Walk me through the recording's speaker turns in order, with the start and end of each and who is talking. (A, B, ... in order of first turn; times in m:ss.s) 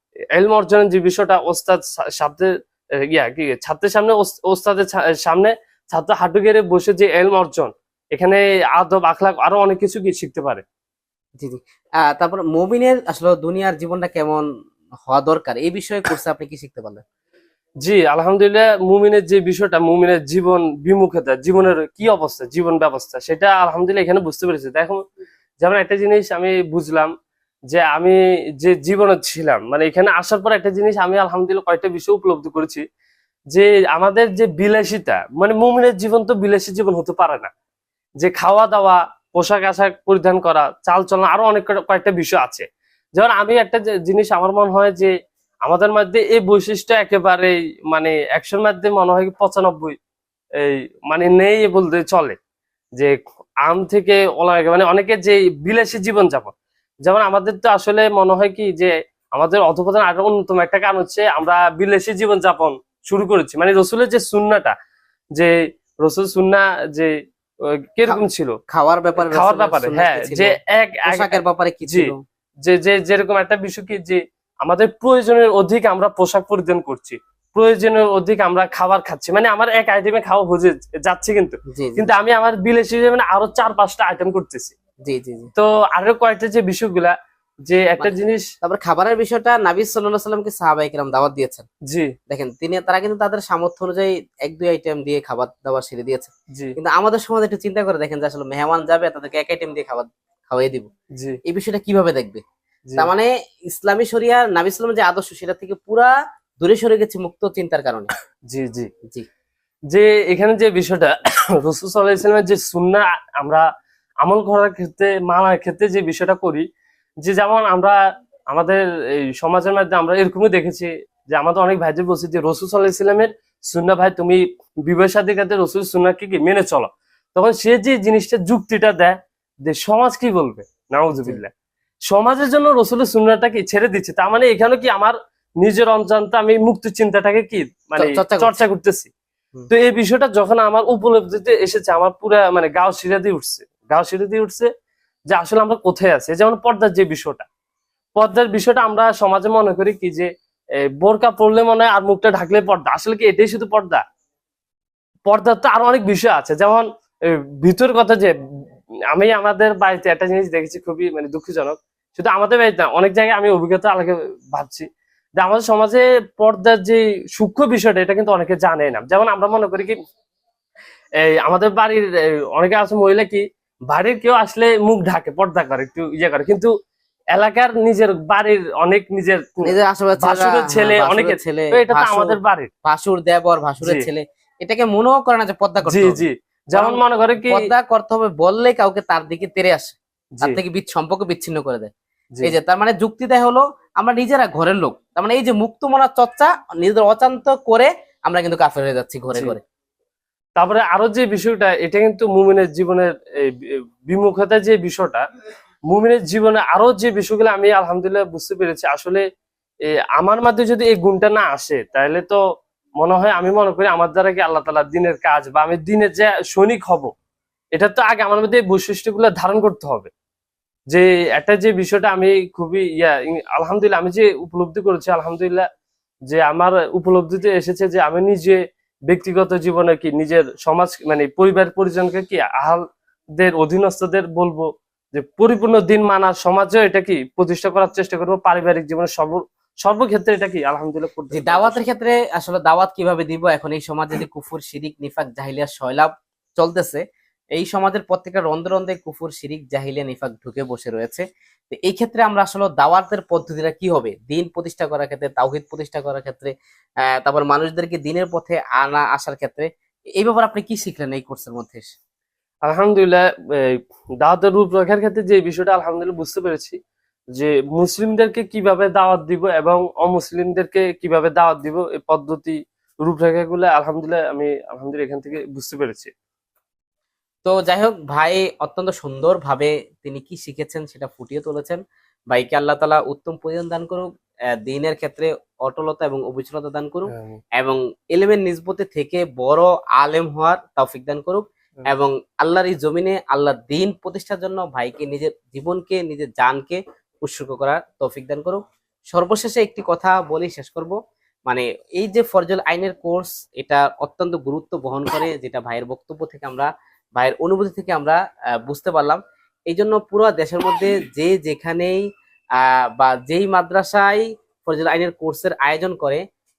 0:00.3-0:02.5 A
0:03.1-0:10.6 A
0:11.4-0:14.4 B
0:15.1-0:17.0 B
0:17.8-0:25.0 A
0:25.6-0:27.1 A
0:27.7-0:32.8 A
0:33.5-0:37.5 A
0:38.2-0:45.1 A
0:45.6-0:50.0 A
0:50.6-0:52.4 A
0:53.0-0:56.5 A
0:57.0-1:04.7 A
1:05.3-1:07.1 A
1:07.6-1:08.6 A
1:08.1-1:12.2 B
1:09.2-1:11.3 A
1:11.8-1:24.7 A
1:21.7-1:22.1 B
1:25.0-1:25.5 B
1:25.5-1:27.1 A
1:27.6-1:28.5 A
1:28.0-1:31.6 B
1:32.3-1:40.9 B
1:41.5-1:42.4 B
1:43.0-1:48.1 B
1:48.5-1:48.9 A
1:49.9-1:53.6 A
1:54.2-1:56.6 A
1:57.2-1:58.0 A
1:58.5-2:11.5 A
2:12.1-2:19.1 A
2:18.0-2:18.6 B
2:19.7-2:24.7 A
2:25.3-2:27.4 A
2:28.2-2:30.3 A
2:31.0-2:34.0 A
2:35.3-2:38.3 A
2:39.1-2:44.8 A
2:45.4-2:50.0 A
2:51.2-2:56.7 A
2:57.3-3:02.7 A
2:59.6-3:11.9 B
3:03.8-3:04.1 A
3:05.8-3:07.6 A
3:10.3-3:10.6 A
3:12.4-3:19.6 B
3:20.6-3:25.2 A
3:25.9-3:29.2 A
3:29.9-3:32.4 A
3:33.0-3:37.1 A
3:37.7-3:40.1 A
3:40.9-3:45.6 A
3:46.3-3:52.8 A
3:53.4-4:01.8 A
4:01.3-4:07.0 B
4:07.6-4:16.5 B
4:17.1-4:21.9 B
4:22.6-4:26.8 A
4:27.4-4:36.1 A
4:37.4-4:41.8 B
4:42.3-4:44.1 B
4:44.6-4:58.6 B
4:47.1-4:47.4 A
4:59.1-5:12.0 B
5:12.6-5:16.2 B